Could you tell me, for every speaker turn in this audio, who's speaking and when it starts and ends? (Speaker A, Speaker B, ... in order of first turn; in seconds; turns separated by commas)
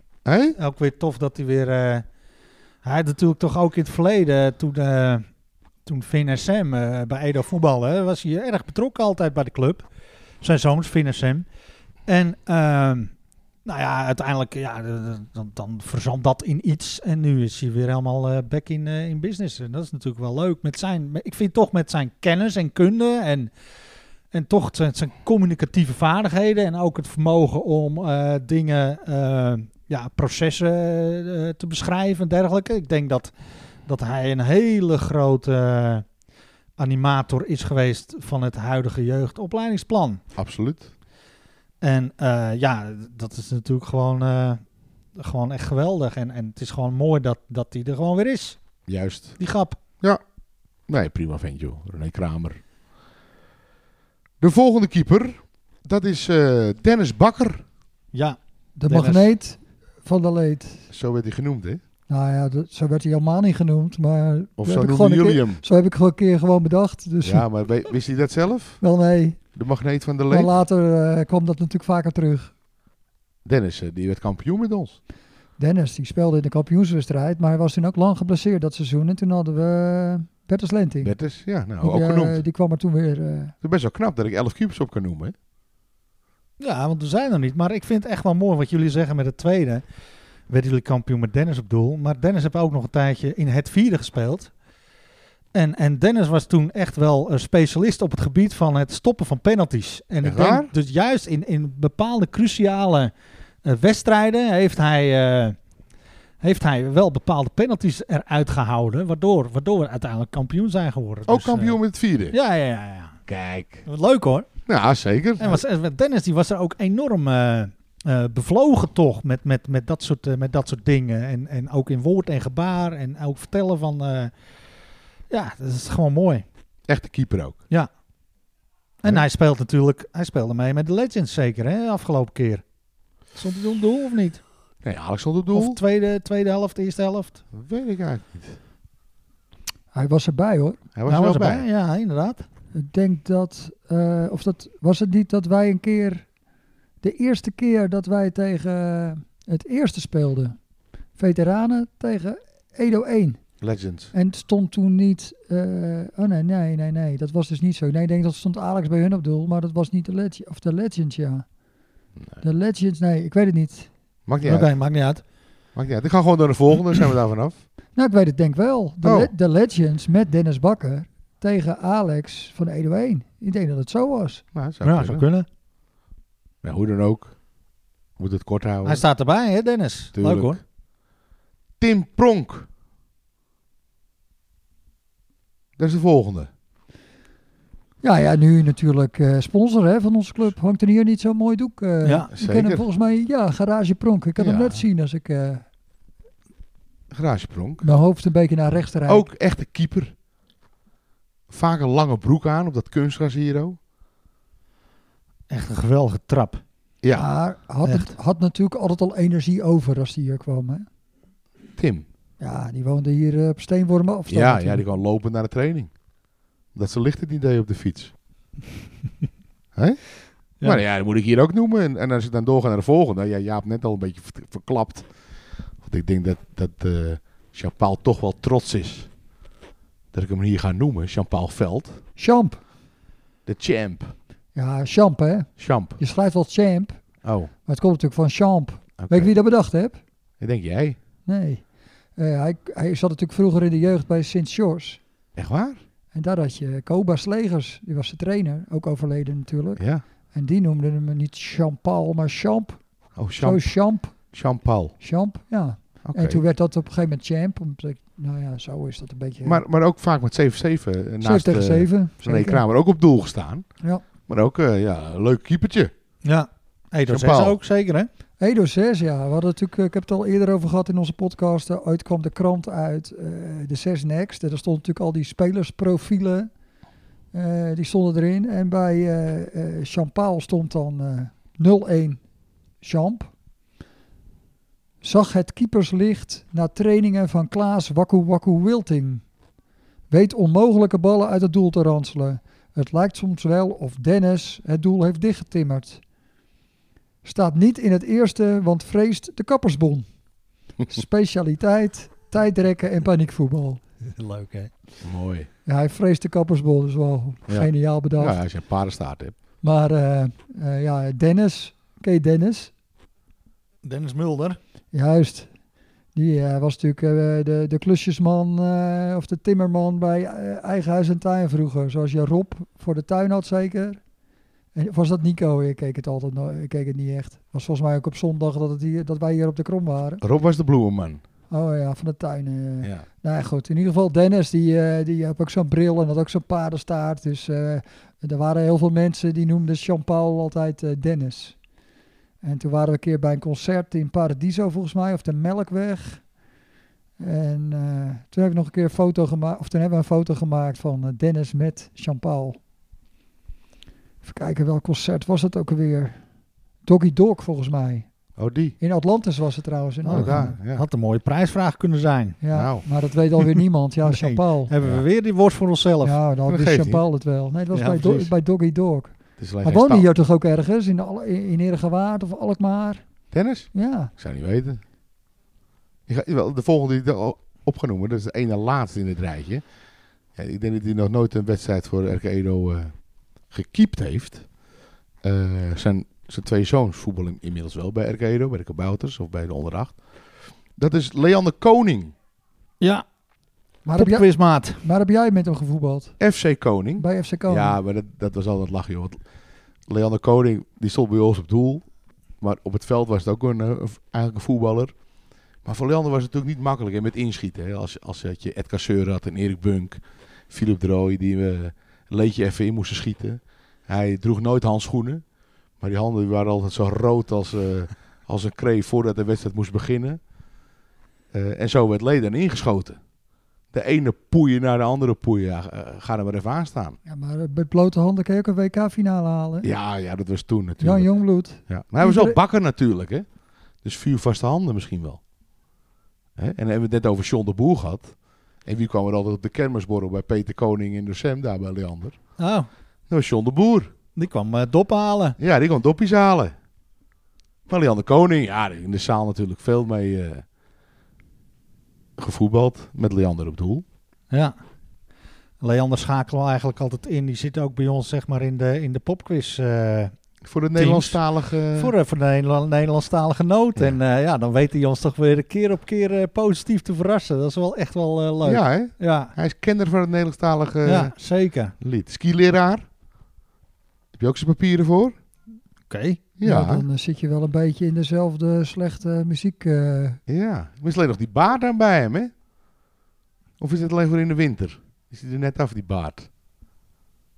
Speaker A: 0.2-0.6, Speaker B: 0.6-2.1, Speaker B: 2.8-5.3, Speaker B: 5.9-9.8, Speaker B: 10.4-11.5, Speaker B: 12.1-13.1, Speaker B: 13.7-23.5, Speaker B: 24.3-33.3, Speaker B: 33.9-36.1, Speaker B: 36.8-40.2, Speaker A: 40.4-40.9, Speaker B: 41.8-44.6, Speaker B: 45.1-48.6, Speaker A: 48.9-49.4, Speaker B: 49.4-49.8, Speaker A: 50.9-52.6, Speaker A: 54.4-57.6, Speaker B: 58.1-59.3, Speaker C: 58.8-60.9, Speaker A: 60.9-61.8, Speaker C: 62.1-67.5, Speaker A: 64.6-65.6, Speaker A: 67.2-68.8, Speaker C: 68.8-69.5, Speaker A: 69.5-70.5, Speaker C: 70.3-72.5, Speaker A: 73.5-75.0, Speaker C: 75.6-81.1, Speaker A: 81.0-82.4, Speaker C: 81.8-83.5, Speaker A: 83.6-85.3, Speaker B: 86.6-89.8, Speaker B: 90.5-94.5, Speaker B: 95.5-103.1, Speaker A: 100.2-100.7, Speaker B: 103.6-105.6, Speaker B: 106.4-111.8, Speaker A: 111.3-112.4, Speaker B: 112.3-113.2, Speaker A: 113.3-113.9, Speaker B: 113.9-114.5, Speaker A: 114.7-115.6, Speaker B: 115.4-124.3, Speaker B: 125.3-126.5, Speaker A: 126.9-127.6, Speaker B: 129.0-132.6, Speaker B: 133.3-134.4, Speaker A: 134.8-135.8, Speaker B: 135.5-137.4, Speaker A: 137.5-138.6, Speaker C: 139.9-140.8, Speaker A: 140.9-141.7, Speaker B: 141.1-142.4, Speaker C: 142.7-146.3, Speaker C: 147.0-150.6, Speaker C: 151.2-153.4, Speaker A: 153.6-154.1, Speaker C: 154.1-161.4, Speaker C: 162.4-163.9, Speaker A: 164.3-164.7, Speaker B: 164.4-165.2, Speaker A: 165.8-167.6, Speaker C: 167.9-174.4, Speaker A: 169.0-169.3, Speaker A: 174.5-175.2, Speaker B: 174.8-175.5, Speaker A: 176.6-177.4, Speaker A: 178.2-179.0, Speaker B: 178.8-180.6, Speaker A: 180.2-180.6, Speaker A: 181.8-182.7, Speaker A: 185.8-186.5, Speaker C: 188.0-195.7, Speaker B: 192.0-192.3, Speaker A: 192.3-192.8, Speaker A: 194.4-194.8, Speaker A: 197.1-197.9, Speaker C: 197.8-199.3, Speaker A: 199.1-200.1, Speaker A: 201.5-203.8, Speaker B: 205.5-206.6, Speaker A: 207.0-207.3, Speaker C: 207.1-210.9, Speaker B: 207.8-208.2, Speaker A: 211.8-212.1, Speaker C: 212.4-214.8, Speaker A: 214.3-215.9, Speaker A: 216.7-218.1, Speaker A: 219.8-225.1, Speaker A: 225.8-229.1, Speaker A: 230.1-232.0, Speaker C: 232.2-232.6, Speaker A: 233.5-234.1, Speaker C: 234.6-237.0, Speaker A: 235.6-236.0, Speaker A: 237.2-237.5, Speaker C: 237.7-240.0, Speaker A: 239.0-239.3, Speaker A: 240.4-241.0, Speaker C: 241.3-241.6, Speaker C: 242.2-245.0, Speaker A: 245.4-245.8, Speaker C: 246.1-252.8, Speaker A: 253.2-255.0, Speaker C: 253.4-254.3, Speaker C: 255.0-259.6, Speaker A: 256.1-256.4, Speaker A: 259.4-263.7, Speaker C: 261.2-262.6, Speaker A: 264.3-265.9, Speaker B: 266.2-268.1, Speaker A: 267.1-267.6, Speaker C: 268.4-276.5, Speaker C: 277.3-282.2, Speaker C: 282.8-283.3, Speaker C: 285.0-289.2, Speaker C: 290.1-296.0, Speaker C: 297.2-300.1, Speaker C: 300.9-303.8, Speaker B: 304.1-304.7, Speaker A: 305.0-305.5, Speaker C: 305.7-308.4, Speaker A: 307.5-309.4, Speaker C: 309.6-312.7, Speaker B: 313.8-314.6, Speaker C: 314.9-315.5, Speaker C: 316.1-324.0, Speaker C: 324.7-330.2, Speaker A: 330.2-331.2, Speaker C: 331.5-341.6, Speaker C: 342.4-346.2, Speaker C: 347.2-352.6, Speaker C: 354.2-356.2, Speaker C: 356.8-358.1, Speaker A: 358.4-358.8, Speaker C: 358.8-360.6, Speaker A: 360.1-360.8, Speaker B: 360.1-362.4, Speaker C: 362.4-364.7, Speaker A: 362.5-362.9, Speaker B: 364.1-366.2, Speaker C: 366.0-373.1, Speaker A: 366.5-367.0, Speaker B: 367.7-368.3, Speaker A: 369.4-370.1, Speaker A: 373.3-374.8, Speaker C: 373.7-374.1, Speaker A: 376.1-379.6, Speaker A: 380.4-382.9, Speaker A: 383.5-384.5, Speaker A: 385.2-392.1, Speaker B: 392.8-393.1, Speaker C: 393.9-396.2, Speaker B: 393.9-394.8, Speaker A: 396.2-399.2, Speaker C: 397.0-397.8, Speaker A: 399.9-401.9, Speaker A: 402.4-404.9, Speaker A: 405.6-415.2, Speaker A: 415.8-420.2, Speaker A: 421.3-423.0, Speaker A: 423.7-427.0, Speaker C: 427.1-429.7, Speaker A: 429.6-431.1, Speaker C: 430.8-432.4, Speaker A: 431.7-433.3, Speaker A: 433.8-435.2, Speaker A: 436.4-442.2, Speaker B: 442.4-442.7, Speaker A: 443.1-443.9, Speaker B: 444.2-445.4, Speaker A: 445.4-446.5, Speaker A: 447.7-450.4, Speaker A: 452.2-453.8, Speaker B: 454.3-454.6, Speaker B: 455.6-460.2, Speaker A: 460.4-461.9, Speaker B: 460.7-461.2, Speaker B: 461.7-469.3, Speaker A: 468.4-471.1, Speaker B: 470.8-471.8, Speaker A: 471.8-472.9, Speaker A: 474.2-475.2, Speaker B: 475.9-476.2, Speaker A: 476.4-476.9, Speaker C: 476.4-480.2, Speaker A: 480.3-482.3, Speaker A: 483.6-486.3